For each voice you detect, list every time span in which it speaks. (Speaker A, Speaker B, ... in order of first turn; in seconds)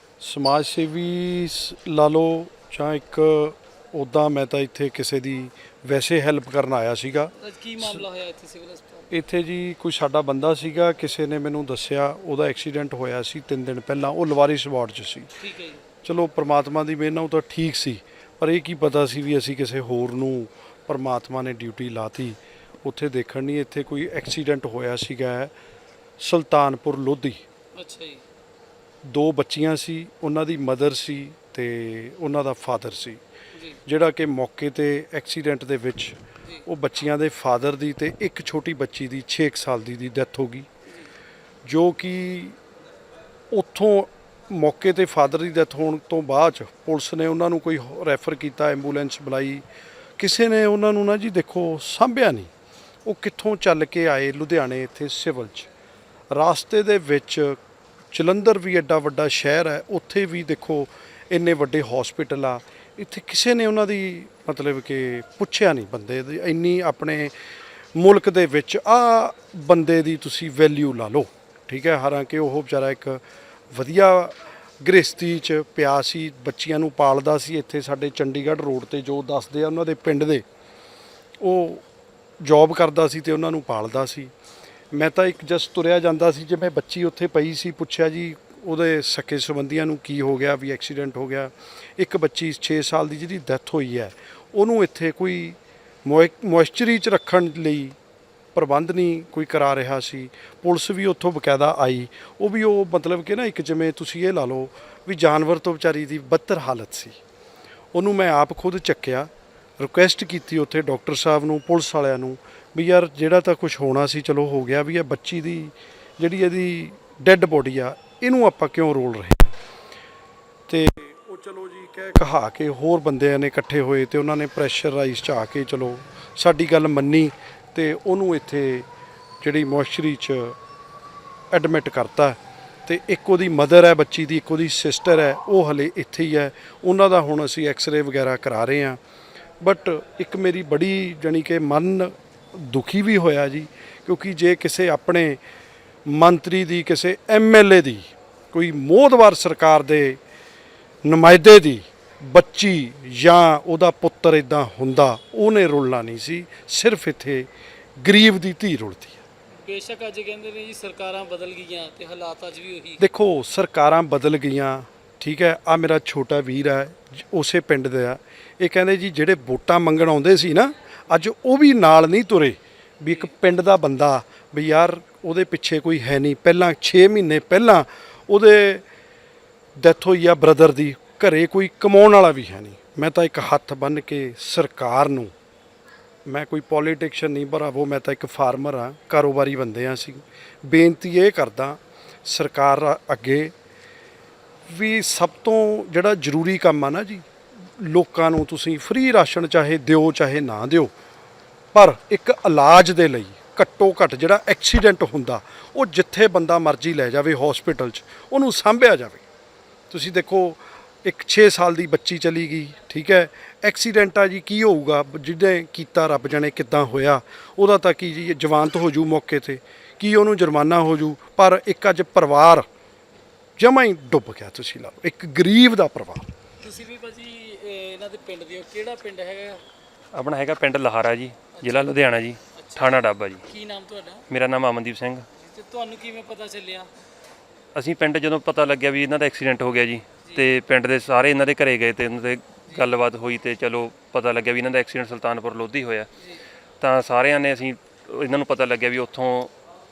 Speaker A: 0.2-8.1, 9.1-15.3, 16.0-25.5, 26.2-27.4, 29.0-33.2, 33.9-40.7, 41.6-42.6, 43.5-49.6, 50.2-52.5, 53.0-55.7, 56.3-57.6, 58.1-67.3, 67.9-73.2, 73.7-80.4, 81.4-81.8, 82.4-84.3, 84.9-98.0, 98.5-107.2, 107.9-119.5, 120.7-128.9, 129.4-130.6, 131.5-139.0, 139.6-145.4, 146.1-150.2, 151.0-157.5, 158.0-159.2, 163.0-178.8, 179.8-185.3, 186.2-193.5, 194.7-197.2, 197.8-200.9, 201.7-209.2, 209.9-222.6, 223.6-226.3
Speaker B: 7.4-9.1, 15.4-15.8, 27.8-28.2, 159.6-163.0, 226.6-229.6, 231.5-231.9, 232.5-234.2, 235.4-236.9
Speaker C: 230.1-233.4, 234.3-235.3, 237.7-246.1, 246.8-249.5